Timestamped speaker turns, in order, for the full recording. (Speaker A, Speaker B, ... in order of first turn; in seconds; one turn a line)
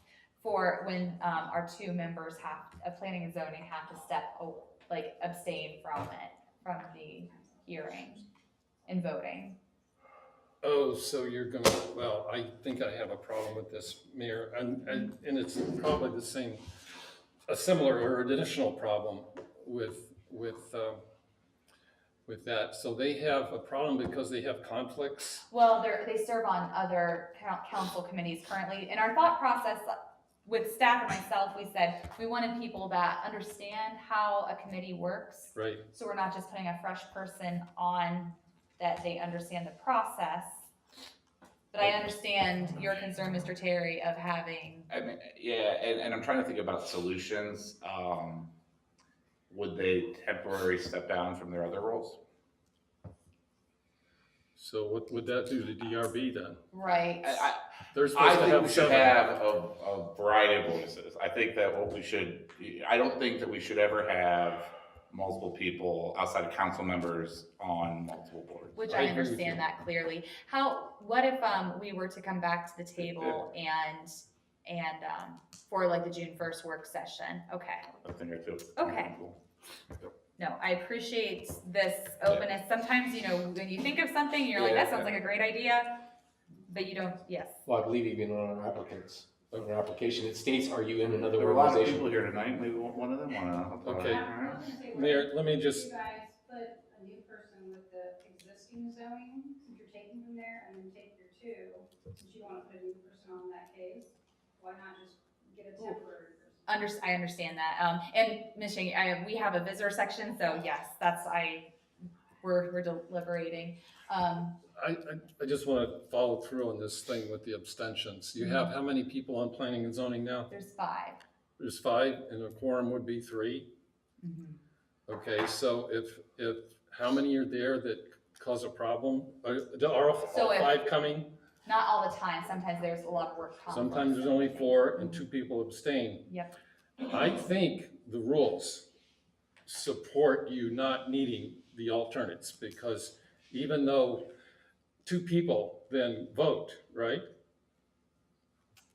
Speaker A: 0.4-8.2
Speaker A: 8.9-9.6
Speaker B: 10.6-16.6
Speaker B: 17.5-21.0
Speaker B: 22.3-25.4
Speaker A: 25.5-40.7
Speaker B: 35.5-35.8
Speaker A: 41.7-44.9
Speaker C: 44.9-48.5
Speaker C: 49.5-52.2
Speaker B: 54.6-56.6
Speaker A: 56.7-57.5
Speaker C: 57.2-69.1
Speaker B: 57.9-59.2
Speaker A: 68.8-77.9
Speaker B: 68.9-69.6
Speaker C: 78.0-79.4
Speaker A: 78.8-79.1
Speaker A: 80.4-86.1
Speaker D: 84.6-85.1
Speaker A: 86.7-87.6
Speaker D: 87.7-92.2
Speaker C: 91.3-94.8
Speaker B: 93.8-94.3
Speaker E: 94.0-106.6
Speaker B: 94.9-95.9
Speaker A: 106.7-111.7
Speaker A: 112.4-114.5
Speaker B: 114.8-120.5
Speaker A: 118.4-118.7
Speaker A: 120.5-121.2
Speaker B: 121.6-123.7
Speaker A: 124.2-124.6
Speaker B: 125.1-131.3
Speaker A: 130.3-130.8
Speaker A: 131.7-135.2
Speaker B: 133.7-136.2
Speaker A: 136.3-136.5
Speaker B: 137.1-138.9
Speaker B: 139.7-144.3
Speaker B: 145.0-147.2